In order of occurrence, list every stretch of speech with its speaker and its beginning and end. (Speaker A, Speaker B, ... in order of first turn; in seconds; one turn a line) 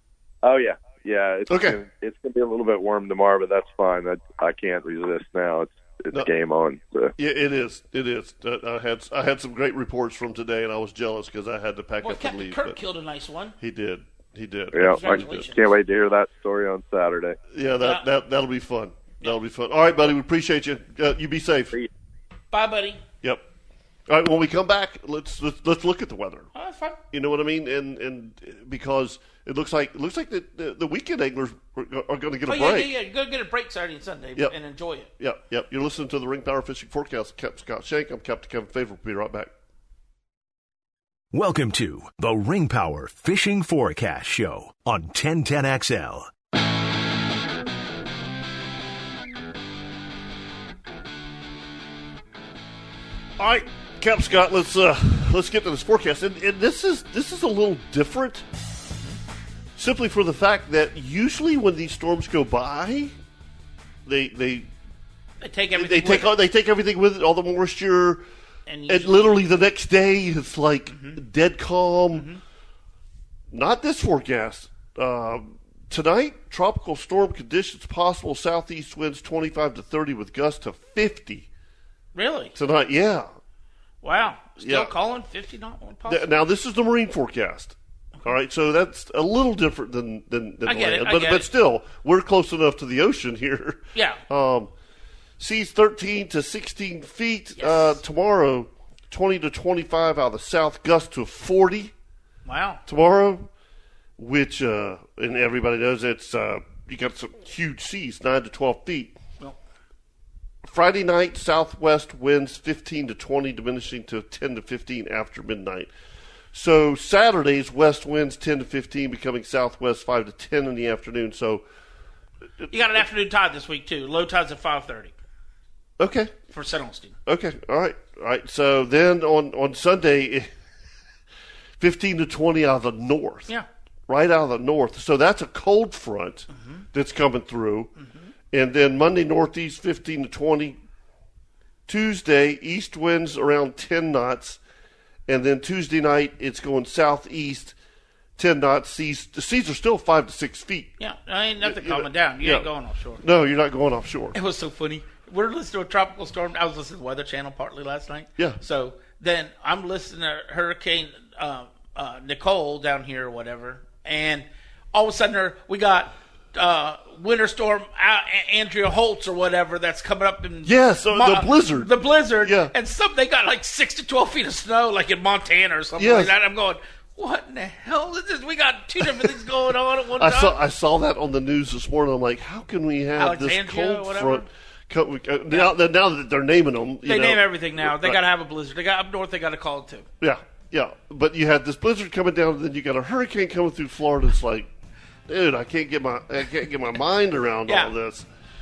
Speaker A: 0.4-7.1
Speaker B: 1.5-1.8
Speaker B: 7.2-12.8
Speaker C: 12.0-13.6
Speaker B: 13.6-15.5
Speaker A: 14.7-17.4
Speaker C: 14.8-15.7
Speaker B: 17.5-21.8
Speaker C: 17.8-18.0
Speaker C: 22.5-23.0
Speaker B: 24.1-26.5
Speaker C: 26.5-27.0
Speaker B: 27.1-32.9
Speaker C: 32.5-35.1
Speaker B: 35.2-39.5
Speaker D: 41.3-46.3
Speaker B: 53.4-58.4
Speaker B: 59.8-63.1
Speaker B: 64.0-64.7
Speaker C: 65.4-66.3
Speaker B: 65.7-68.2
Speaker C: 68.7-69.4
Speaker B: 68.9-72.3
Speaker C: 70.9-71.2
Speaker C: 72.1-72.4
Speaker B: 73.5-81.5
Speaker C: 82.1-82.5
Speaker B: 82.5-83.3
Speaker C: 84.0-86.2
Speaker B: 84.6-84.9
Speaker B: 86.0-94.7
Speaker C: 90.6-91.5
Speaker C: 93.9-94.2
Speaker B: 95.4-101.9
Speaker C: 97.6-98.0
Speaker C: 102.5-102.8
Speaker B: 102.8-103.5
Speaker B: 104.2-109.1
Speaker B: 110.6-115.9
Speaker B: 116.5-121.6
Speaker B: 122.6-123.0
Speaker C: 122.7-125.1
Speaker B: 126.0-126.3
Speaker C: 126.5-127.1
Speaker B: 127.2-130.5
Speaker B: 131.8-133.5
Speaker B: 134.1-137.9
Speaker C: 136.6-136.8
Speaker C: 138.0-138.3
Speaker B: 138.5-140.8
Speaker B: 141.9-144.6
Speaker B: 145.3-147.7
Speaker B: 148.4-150.9
Speaker C: 151.0-153.2
Speaker B: 151.6-152.7
Speaker B: 153.2-154.3
Speaker C: 154.3-180.6
Speaker B: 170.6-172.7
Speaker B: 176.0-176.3
Speaker B: 179.0-179.4
Speaker B: 180.2-188.2
Speaker C: 183.2-184.4
Speaker C: 187.0-190.1
Speaker B: 190.2-194.7
Speaker B: 195.3-198.3
Speaker C: 197.7-197.9